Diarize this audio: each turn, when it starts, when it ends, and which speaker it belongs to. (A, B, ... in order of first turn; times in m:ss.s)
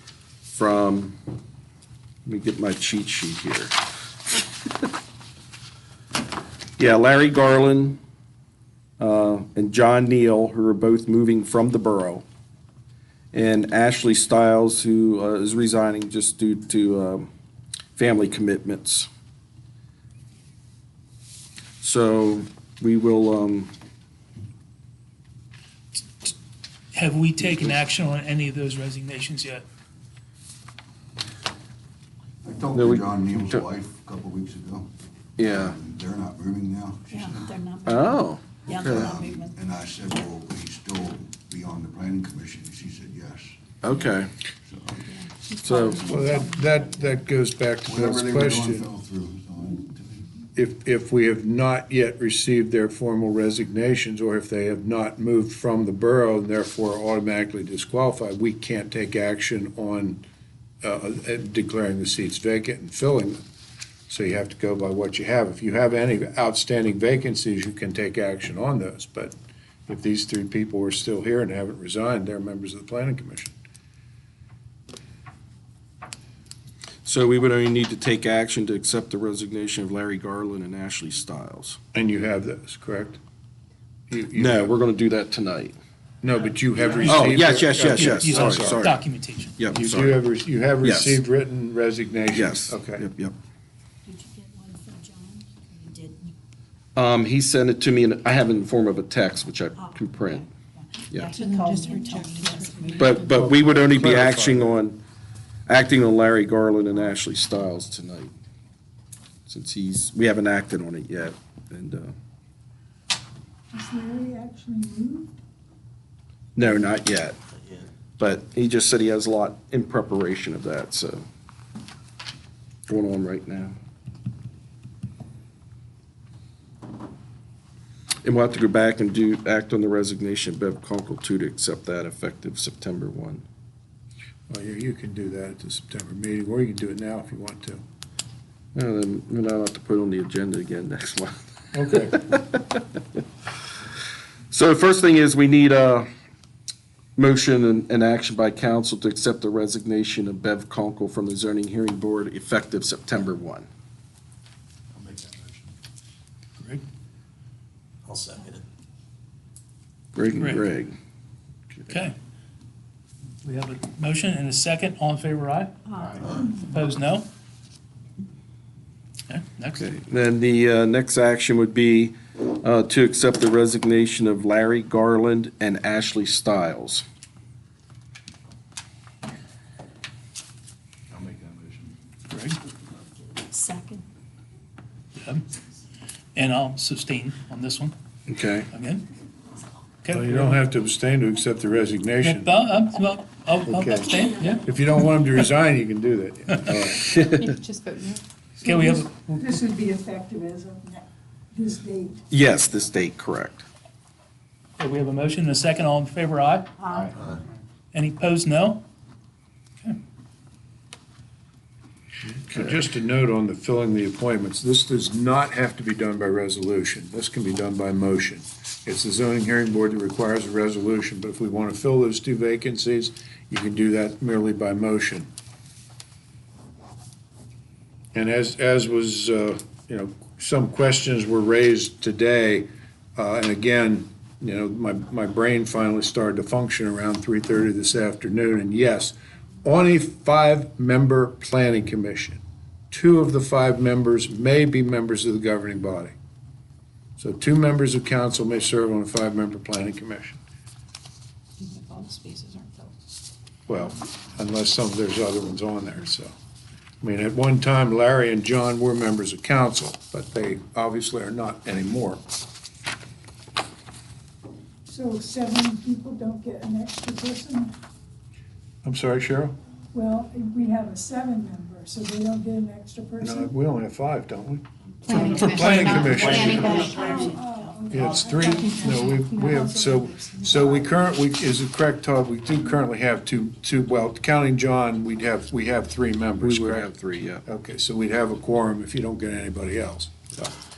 0:00.5-0:01.2 A
0:02.3-0:03.8 A
0:06.8-0:08.0 A
0:09.0-0:12.3 A
0:13.3-0:17.3 A
0:18.0-0:19.1 A
0:21.8-0:23.7 A
0:26.0-0:26.3 B
0:26.9-0:29.6 B
0:27.4-0:27.8 A
0:32.4-0:34.9 C
0:32.7-0:33.6 A
0:35.4-0:35.8 A
0:35.4-0:37.6 C
0:37.1-0:39.6 D
0:37.8-0:39.2 A
0:38.8-0:43.6 C
0:43.8-0:44.3 A
0:44.7-0:45.0 C
0:45.0-0:47.2 D
0:45.6-0:46.1 A
0:45.8-0:48.9 E
0:47.9-0:50.3 C
0:50.6-1:00.2 E
1:00.8-1:03.4 E
1:04.1-1:09.3 E
1:09.9-1:13.6 E
1:17.0-1:21.8 A
1:21.9-1:23.2 E
1:24.1-1:24.8 E
1:24.4-1:25.8 A
1:26.2-1:28.9 E
1:26.8-1:27.4 B
1:27.1-1:29.0 A
1:27.9-1:29.6 B
1:29.6-1:30.2 A
1:29.7-1:33.0 E
1:30.8-1:31.2 A
1:32.3-1:33.4 A
1:34.1-1:36.4 D
1:37.0-1:40.5 A
1:39.8-1:43.3 D
1:41.3-1:43.2 F
1:41.4-1:43.1 G
1:43.0-1:45.0 A
1:43.3-1:44.8 E
1:45.7-1:48.3 A
1:49.5-1:52.1 A
1:53.7-1:55.4 H
1:56.6-1:57.4 A
1:58.2-2:01.3 A
2:02.9-2:03.8 A
2:08.2-2:13.5 A
2:14.5-2:17.8 E
2:18.8-2:23.0 A
2:21.7-2:22.2 E
2:24.5-2:26.1 A
2:27.2-2:33.7 A
2:35.0-2:35.5 G
2:38.1-2:38.6 G
2:40.2-2:41.0 A
2:40.4-2:40.6 B
2:41.9-2:42.2 B
2:43.4-2:47.3 B
2:49.3-2:49.9 B
2:49.8-2:57.0 A
3:02.3-3:02.6 B
3:03.5-3:04.0 D
3:05.2-3:05.4 B
3:06.4-3:08.0 B
3:08.3-3:08.7 A
3:08.7-3:09.1 B
3:10.0-3:10.6 B
3:10.1-3:12.5 E
3:12.2-3:14.7 B
3:13.6-3:17.1 E
3:16.7-3:17.5 A
3:17.3-3:18.2 F
3:18.6-3:22.2 H
3:18.6-3:19.5 B
3:22.3-3:23.7 A
3:24.8-3:26.7 B
3:27.9-3:28.8 B
3:32.4-3:45.3 E
3:48.1-4:06.1 E
4:07.2-4:10.4 E
4:11.6-4:12.9 D
4:11.6-4:12.8 F
4:13.7-4:16.3 E
4:17.0-4:22.2 E
4:24.9-4:27.7 H
4:28.8-4:29.6 E
4:29.9-4:33.5 H
4:33.2-4:34.6 E
4:35.1-4:37.1 B
4:35.1-4:37.7 D
4:35.1-4:37.3 F
4:35.2-4:36.8 E
4:36.2-4:37.1 G
4:36.8-4:40.2 H
4:37.9-4:46.9 E
4:38.4-4:39.5 D
4:38.6-4:39.5 F
4:40.4-4:40.8 D
4:46.4-4:47.4 A
4:47.4-4:50.5 E